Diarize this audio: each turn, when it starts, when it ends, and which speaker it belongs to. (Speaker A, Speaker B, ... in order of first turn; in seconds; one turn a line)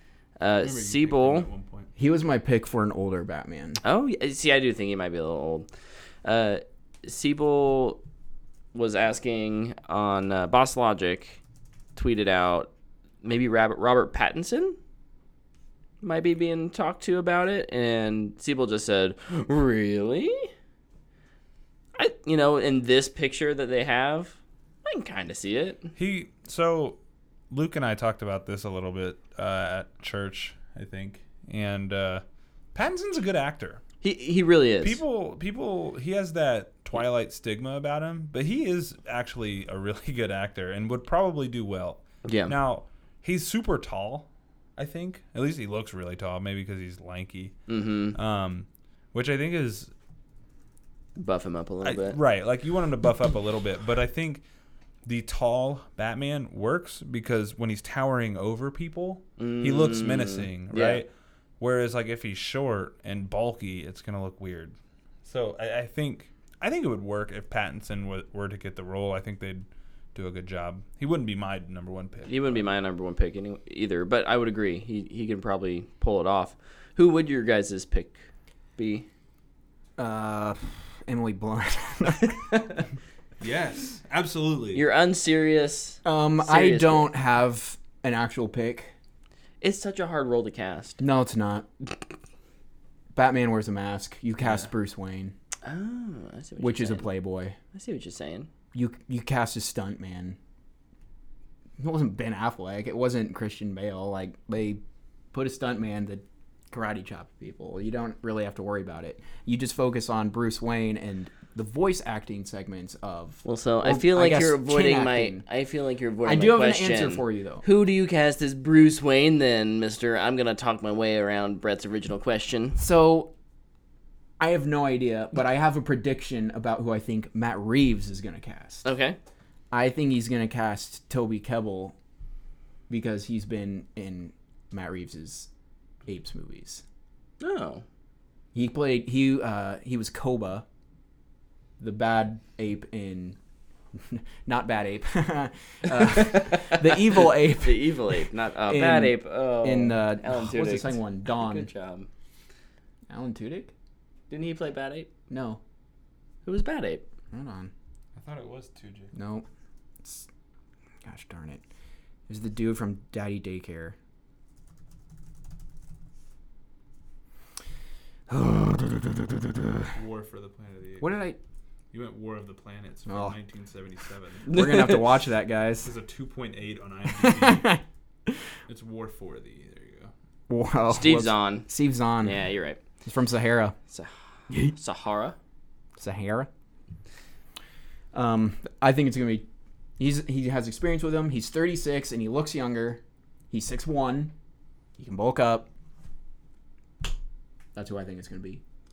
Speaker A: 0.4-1.5
Speaker B: 0.6-1.9
Speaker C: 2.0-3.8
Speaker A: 3.8-5.7
Speaker A: 6.2-8.0
Speaker A: 8.7-11.4
Speaker A: 12.0-12.7
Speaker A: 13.2-14.8
Speaker A: 16.0-20.5
Speaker A: 22.0-25.9
Speaker B: 26.0-27.0
Speaker B: 27.5-32.2
Speaker B: 32.7-33.8
Speaker A: 34.0-35.0
Speaker B: 34.8-47.6
Speaker A: 42.2-42.5
Speaker A: 47.7-48.2
Speaker B: 48.1-49.9
Speaker A: 51.2-52.2
Speaker B: 51.8-54.4
Speaker B: 55.1-61.1
Speaker A: 59.4-61.0
Speaker B: 61.6-64.7
Speaker B: 65.2-72.7
Speaker A: 72.3-78.2
Speaker A: 78.8-79.1
Speaker C: 80.0-82.7
Speaker A: 82.5-82.8
Speaker B: 83.4-84.8
Speaker A: 84.7-87.1
Speaker C: 86.0-88.9
Speaker A: 89.6-91.0
Speaker C: 91.0-91.7
Speaker C: 93.1-95.3
Speaker B: 94.4-94.7
Speaker A: 95.6-97.1
Speaker C: 96.6-97.6
Speaker A: 97.7-98.5
Speaker C: 98.7-100.4
Speaker C: 101.8-104.8
Speaker C: 105.3-115.4
Speaker A: 113.4-122.8
Speaker C: 116.2-117.7
Speaker C: 122.8-123.3
Speaker C: 124.4-128.9
Speaker A: 128.8-129.2
Speaker C: 129.7-131.9
Speaker C: 132.9-135.5
Speaker C: 136.1-136.8
Speaker A: 137.4-137.8
Speaker C: 138.5-140.7
Speaker C: 141.8-143.4
Speaker C: 143.9-151.7
Speaker A: 146.0-152.1
Speaker C: 153.1-153.7
Speaker A: 154.3-155.1
Speaker C: 155.3-155.6
Speaker A: 156.4-157.1
Speaker C: 157.3-157.7
Speaker B: 158.2-159.1
Speaker C: 159.1-159.5
Speaker C: 160.0-160.3
Speaker C: 161.1-161.6
Speaker C: 162.3-164.0
Speaker C: 168.3-169.9
Speaker B: 169.9-171.2
Speaker C: 171.0-171.4
Speaker B: 171.9-174.5
Speaker C: 173.1-173.4
Speaker C: 174.5-175.9
Speaker A: 174.5-175.1
Speaker B: 175.8-177.8
Speaker C: 177.1-178.4
Speaker B: 178.7-180.1
Speaker C: 180.5-182.5
Speaker A: 180.9-181.7
Speaker A: 182.2-182.8
Speaker C: 183.1-183.8
Speaker A: 184.6-185.4
Speaker C: 186.0-186.5
Speaker C: 188.1-189.5
Speaker C: 190.0-194.3
Speaker C: 195.0-195.7
Speaker C: 197.7-198.6